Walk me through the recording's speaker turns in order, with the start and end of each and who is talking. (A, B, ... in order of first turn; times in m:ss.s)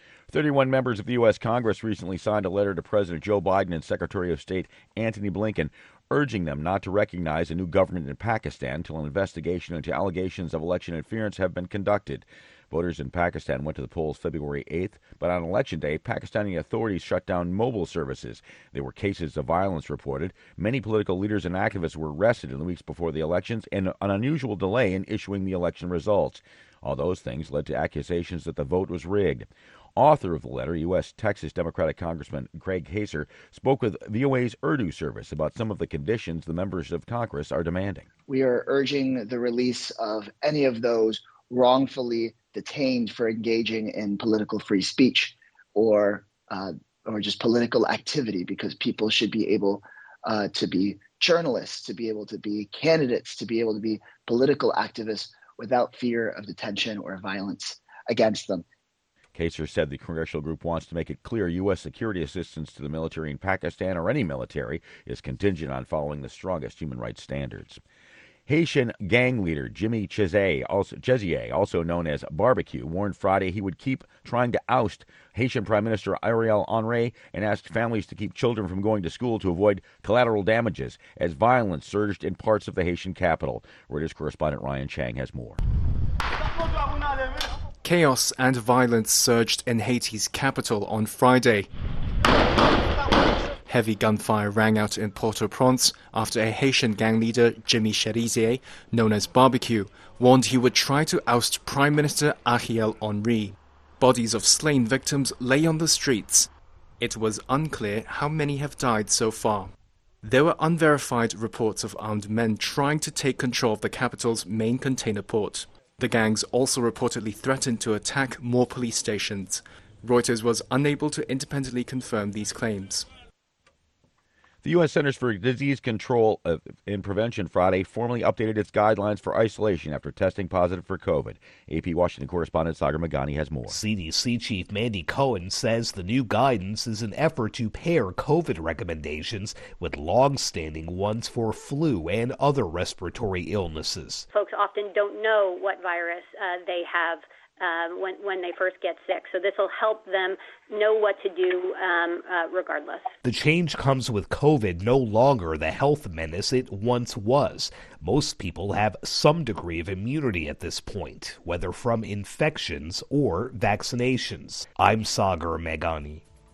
0:00.3-0:38.1 A
0:38.3-0:58.6 B
0:59.4-1:07.8 A
1:08.5-1:25.6 A
1:27.8-1:31.7 C
1:33.7-1:46.5 C
1:47.0-2:03.1 C
2:04.6-2:13.8 A
2:13.7-2:24.2 D
2:24.3-2:33.1 E
2:33.2-2:46.2 D